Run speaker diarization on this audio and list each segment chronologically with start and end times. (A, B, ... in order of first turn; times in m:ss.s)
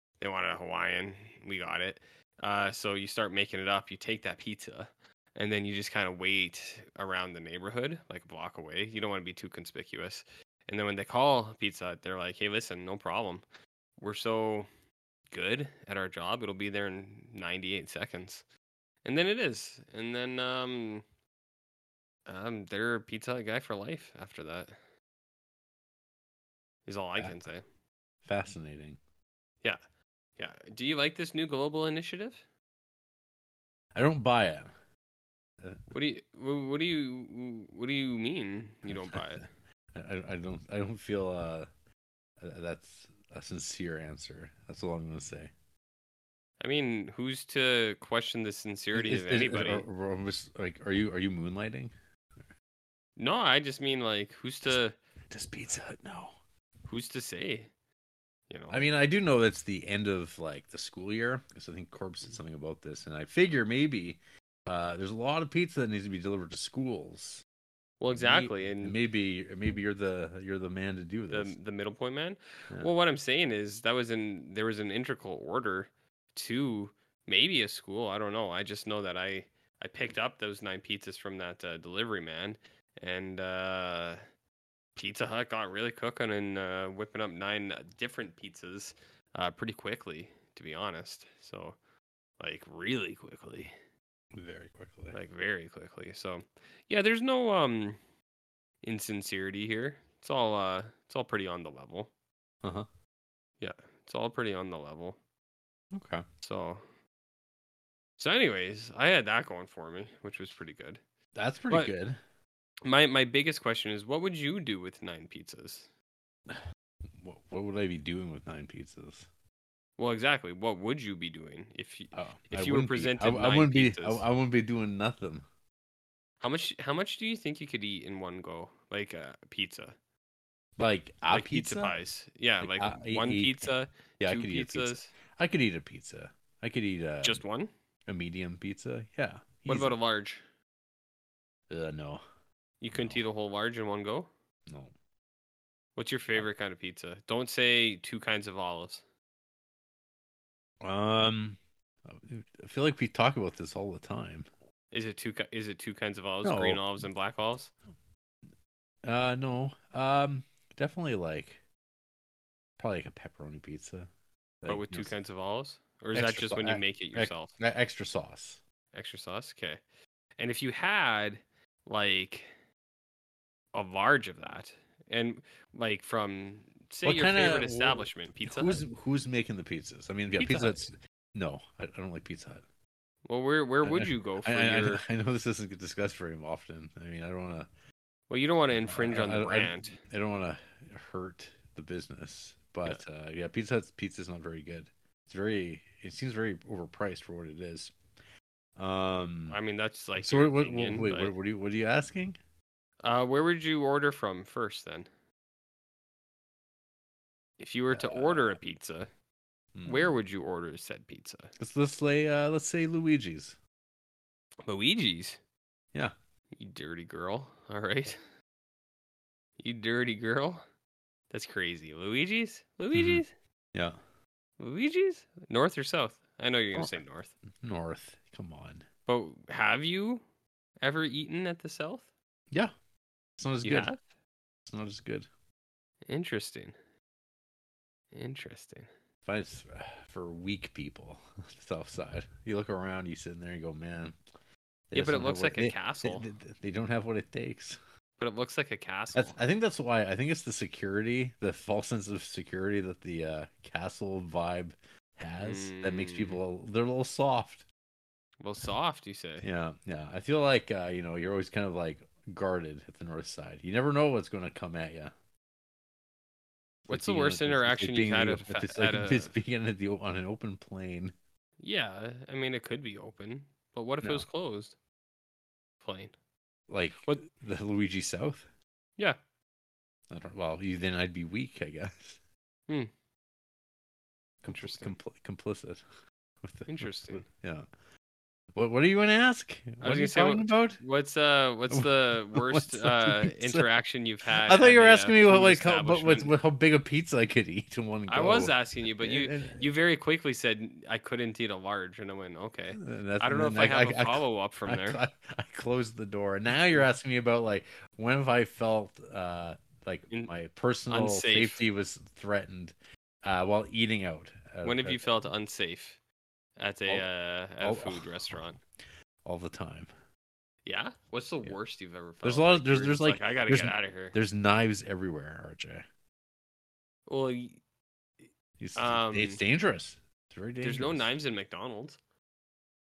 0:00.2-0:13.4 A
0:14.0-0:14.7 A
0:15.3-0:18.4 A
0:19.0-0:21.0 A
0:22.3-0:24.7 A
0:26.8-0:27.6 A
0:28.2-0:29.0 B
0:30.4-0:32.4 A
0:33.9-0:34.7 B
0:35.9-0:39.4 A
0:38.9-0:41.7 B
0:42.4-0:45.5 B
0:46.6-0:49.8 A
0:48.9-0:51.9 B
0:53.2-0:55.0 A
0:55.3-0:56.4 B
0:56.9-0:57.7 A
0:58.5-0:58.8 A
0:58.7-1:07.4 B
1:08.0-1:09.0 A
1:08.1-1:11.5 B
1:11.3-1:24.2 A
1:25.0-1:31.8 A
1:32.4-1:33.7 A
1:34.3-1:35.2 B
1:35.1-1:38.0 A
1:38.8-1:42.1 A
1:42.6-1:42.9 B
1:43.6-1:45.2 A
1:45.9-1:46.2 B
1:46.4-1:46.8 A
1:48.2-1:51.0 A
1:51.3-1:52.2 B
1:52.8-1:55.9 A
1:56.5-1:59.3 B
2:00.0-2:04.2 A
2:02.1-2:05.4 B
2:06.4-2:09.9 A
2:10.8-2:12.0 B
2:11.3-2:15.1 A
2:12.6-2:17.4 B
2:17.2-2:17.7 A
2:18.1-2:19.9 B
2:19.7-2:20.4 A
2:21.7-2:22.2 B
2:22.8-2:24.3 A
2:22.9-2:23.2 B
2:24.7-2:24.9 B
2:26.0-2:29.0 A
2:30.8-2:34.5 B
2:34.9-2:37.7 A
2:36.4-2:36.8 B
2:39.0-2:41.6 B
2:42.8-2:44.1 B
2:44.6-2:45.1 B
2:44.6-2:47.5 A
2:46.1-2:48.6 B
2:48.9-2:49.8 A
2:50.4-2:52.5 A
2:53.7-2:58.8 A
2:57.0-3:02.6 B
3:00.4-3:00.8 A
3:03.2-3:05.0 A
3:03.8-3:07.7 B
3:08.3-3:10.0 A
3:08.7-3:17.9 B
3:18.8-3:19.6 B
3:19.5-3:21.3 A
3:20.2-3:22.4 B
3:23.0-3:25.1 A
3:27.6-3:29.1 A
3:27.9-3:28.6 B
3:29.7-3:30.1 B
3:29.8-3:31.5 A
3:31.6-3:33.6 B
3:34.7-3:35.4 A
3:36.5-3:38.2 A
3:39.6-3:40.6 A
3:41.3-3:43.3 A
3:42.9-3:43.2 B
3:44.6-3:47.3 A
3:47.6-3:48.8 B
3:49.1-3:50.2 A
3:50.8-3:52.0 A
3:53.4-3:53.9 B
3:53.6-3:54.0 A
3:54.7-3:55.3 B
3:56.1-3:56.7 A
3:58.1-3:58.9 A
3:59.2-4:04.2 B
4:04.9-4:07.8 B
4:04.9-4:06.3 A
4:08.2-4:09.4 A
4:09.1-4:17.6 B
4:15.4-4:16.4 A
4:18.4-4:19.5 A
4:19.4-4:25.1 B
4:26.8-4:31.1 B
4:26.9-4:29.3 A
4:31.6-4:34.7 A
4:35.8-4:36.1 A
4:36.7-4:38.5 B
4:40.1-4:42.2 B
4:44.4-4:45.8 B
4:44.5-4:45.0 A
4:46.4-4:47.6 B
4:46.7-4:47.2 A
4:48.5-4:50.8 B
4:49.8-4:56.3 A
4:51.7-4:53.7 B
4:54.4-4:59.6 B
4:58.1-5:05.0 A
5:02.8-5:15.0 B
5:06.6-5:06.8 A
5:10.9-5:11.6 A
5:14.6-5:16.0 A
5:16.6-5:18.6 A
5:17.6-5:18.4 B
5:19.2-5:19.9 B
5:20.6-5:24.2 A
5:22.2-5:25.8 B
5:27.1-5:27.6 A
5:28.6-5:31.1 B
5:28.7-5:29.4 A
5:30.6-5:32.0 A